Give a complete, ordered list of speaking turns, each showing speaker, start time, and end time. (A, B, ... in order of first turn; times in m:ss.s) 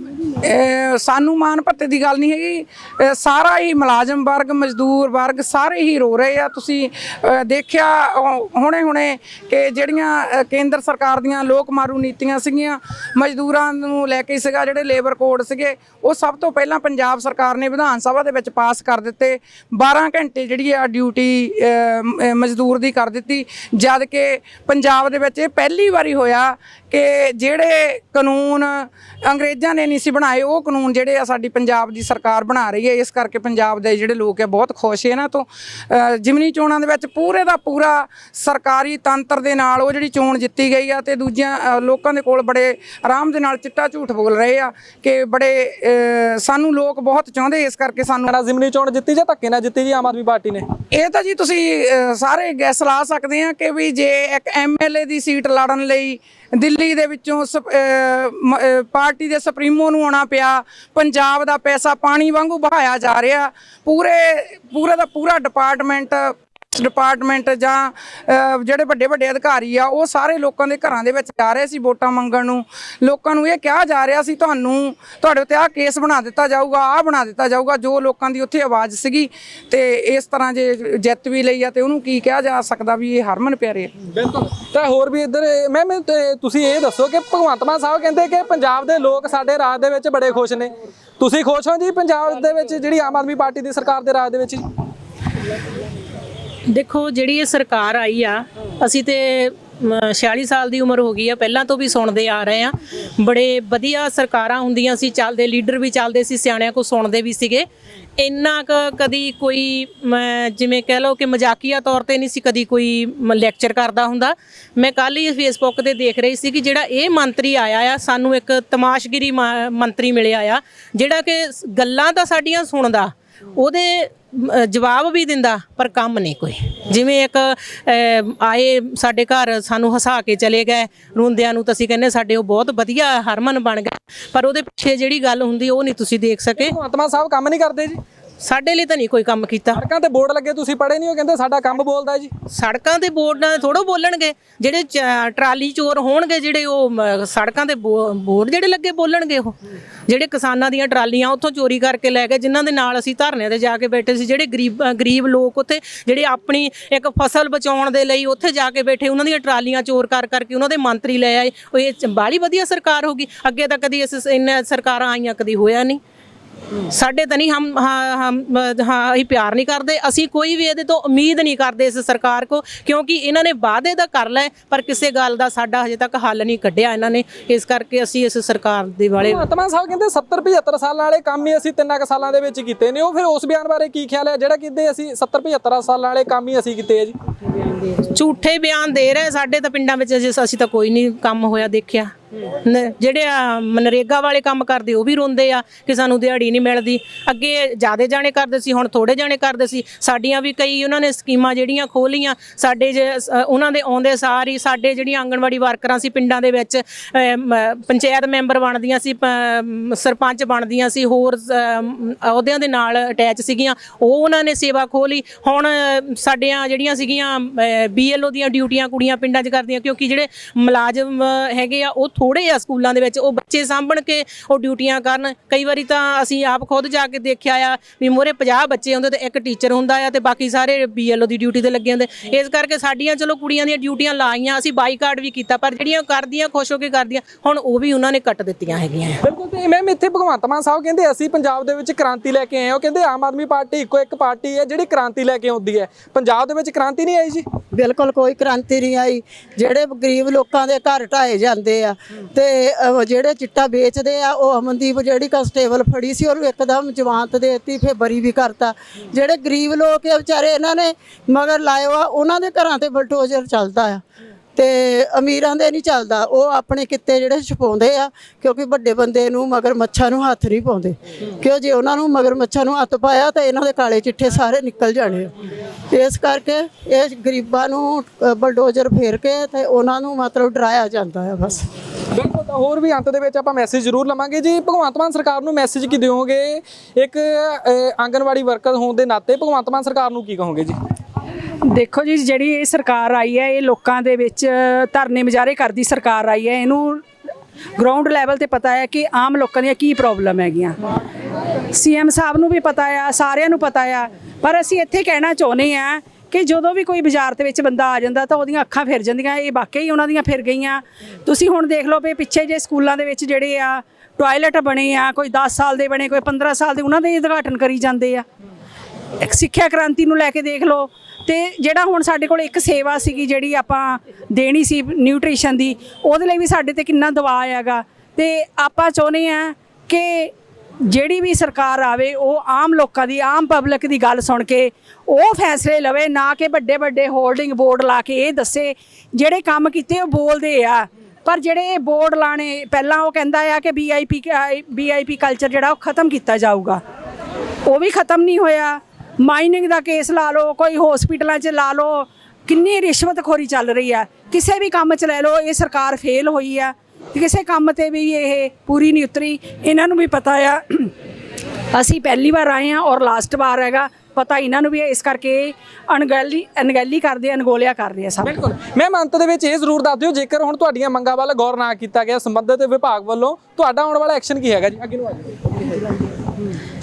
0:00.4-0:48.3 A
0:48.3-0:50.7 B
0:50.9-1:23.9 A
1:24.2-1:34.6 B
1:36.7-1:47.7 C
1:48.2-2:16.8 C
2:16.6-2:18.0 B
2:18.4-2:19.8 C
2:19.7-2:22.3 B
2:22.5-2:29.6 C
2:30.1-2:46.0 C
2:46.9-2:59.4 C
2:59.2-3:07.1 B
3:08.0-3:12.1 C
3:12.6-3:59.2 C
3:59.2-4:07.4 B
4:07.7-4:24.0 D
4:24.6-4:35.3 D
4:35.9-4:41.7 D
4:42.1-4:50.8 B
4:51.7-4:57.0 E
4:57.8-5:00.8 E
5:01.7-5:18.2 E
5:19.2-5:30.3 E
5:30.9-5:46.8 E
5:47.7-6:00.9 E
6:01.8-6:08.4 E
6:08.2-6:15.5 B